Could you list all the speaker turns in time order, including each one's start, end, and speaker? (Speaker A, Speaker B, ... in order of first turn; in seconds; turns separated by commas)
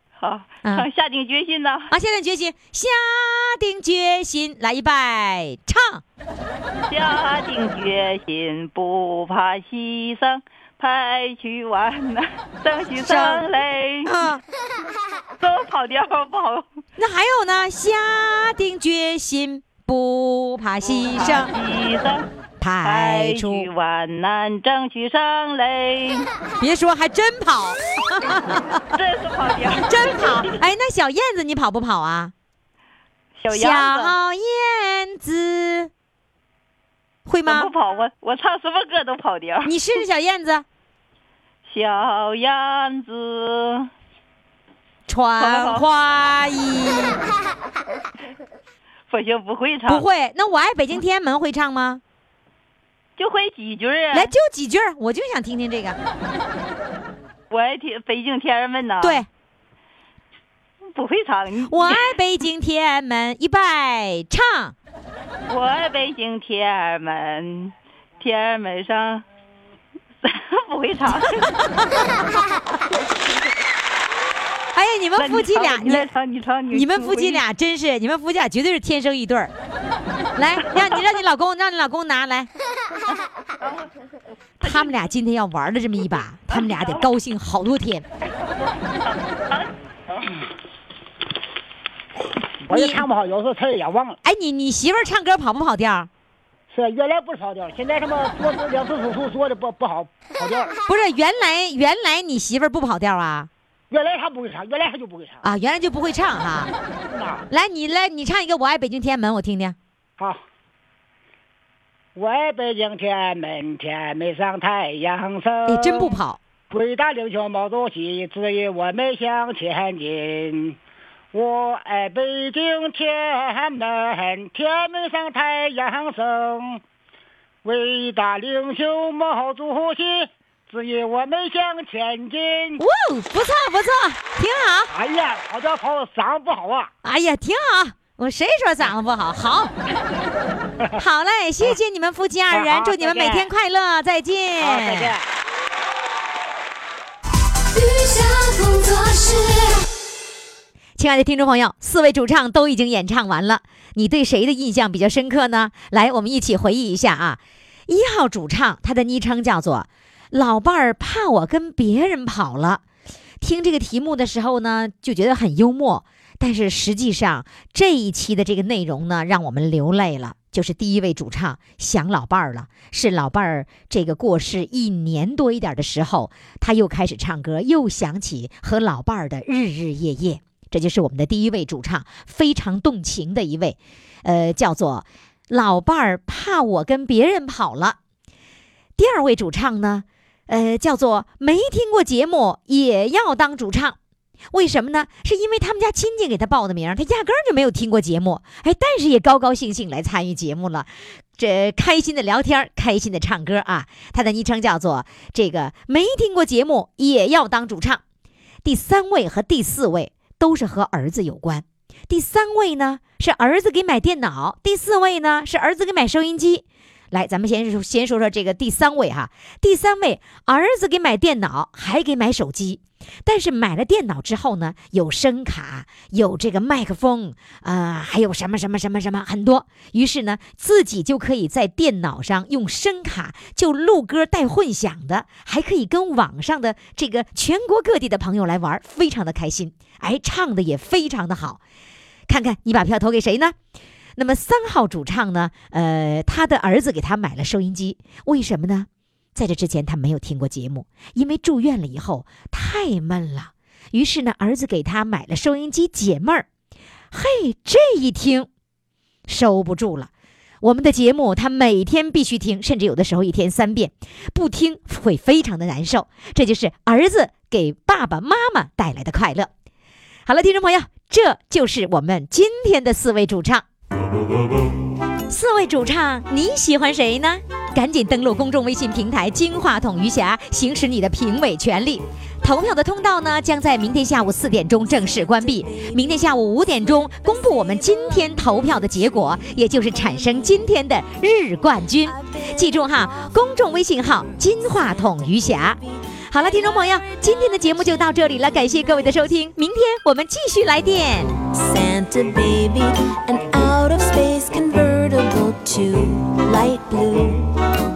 Speaker A: 0.2-1.9, Speaker B: 1.9-6.0, Speaker A: 6.9-14.3, Speaker B: 13.0-13.4, Speaker B: 14.0-14.4, Speaker A: 15.4-16.6, Speaker B: 17.0-21.5, Speaker A: 20.8-22.2, Speaker B: 22.6-23.7, Speaker A: 22.8-26.3, Speaker B: 26.6-28.8, Speaker A: 28.9-30.6, Speaker B: 29.9-32.3, Speaker A: 33.4-34.1, Speaker B: 33.5-35.9, Speaker B: 37.3-37.7, Speaker A: 37.5-40.0, Speaker B: 39.6-40.6, Speaker A: 41.6-43.9, Speaker B: 45.1-47.2, Speaker A: 45.4-45.9, Speaker A: 49.1-50.0, Speaker B: 49.9-52.0, Speaker A: 53.2-54.3, Speaker B: 54.1-56.0, Speaker A: 57.5-59.2, Speaker B: 59.0-59.3, Speaker A: 60.9-62.1, Speaker B: 61.7-64.7, Speaker A: 65.5-69.2, Speaker A: 70.2-71.5, Speaker B: 74.7-76.1, Speaker A: 75.2-77.4, Speaker B: 76.7-79.5, Speaker B: 80.4-82.5, Speaker A: 83.6-83.9, Speaker A: 84.6-85.0, Speaker B: 84.6-88.0, Speaker A: 86.5-87.1, Speaker A: 88.4-89.7, Speaker C: 92.7-94.2, Speaker B: 92.7-93.0, Speaker B: 94.2-96.1, Speaker C: 96.7-100.7, Speaker B: 100.9-103.5, Speaker C: 103.9-105.4, Speaker B: 105.4-106.7, Speaker C: 107.1-107.4, Speaker B: 107.5-109.8, Speaker C: 112.2-116.2, Speaker B: 115.7-116.4, Speaker C: 116.7-120.8, Speaker C: 121.3-126.8, Speaker C: 127.6-132.8, Speaker B: 132.8-134.9, Speaker C: 134.9-136.9, Speaker B: 137.0-139.7, Speaker B: 141.0-145.1, Speaker C: 142.5-143.5, Speaker C: 144.6-145.2, Speaker B: 151.0-162.8, Speaker B: 163.4-188.0, Speaker B: 189.0-193.9, Speaker B: 194.5-208.0, Speaker B: 208.6-241.6, Speaker B: 242.3-243.5, Speaker B: 244.2-256.5, Speaker B: 257.1-258.5, Speaker B: 259.3-260.1, Speaker B: 260.6-269.5, Speaker B: 270.2-273.6, Speaker B: 275.3-301.3, Speaker D: 284.9-286.2, Speaker D: 287.0-288.9, Speaker D: 289.8-290.6, Speaker D: 292.0-299.2, Speaker D: 301.3-307.6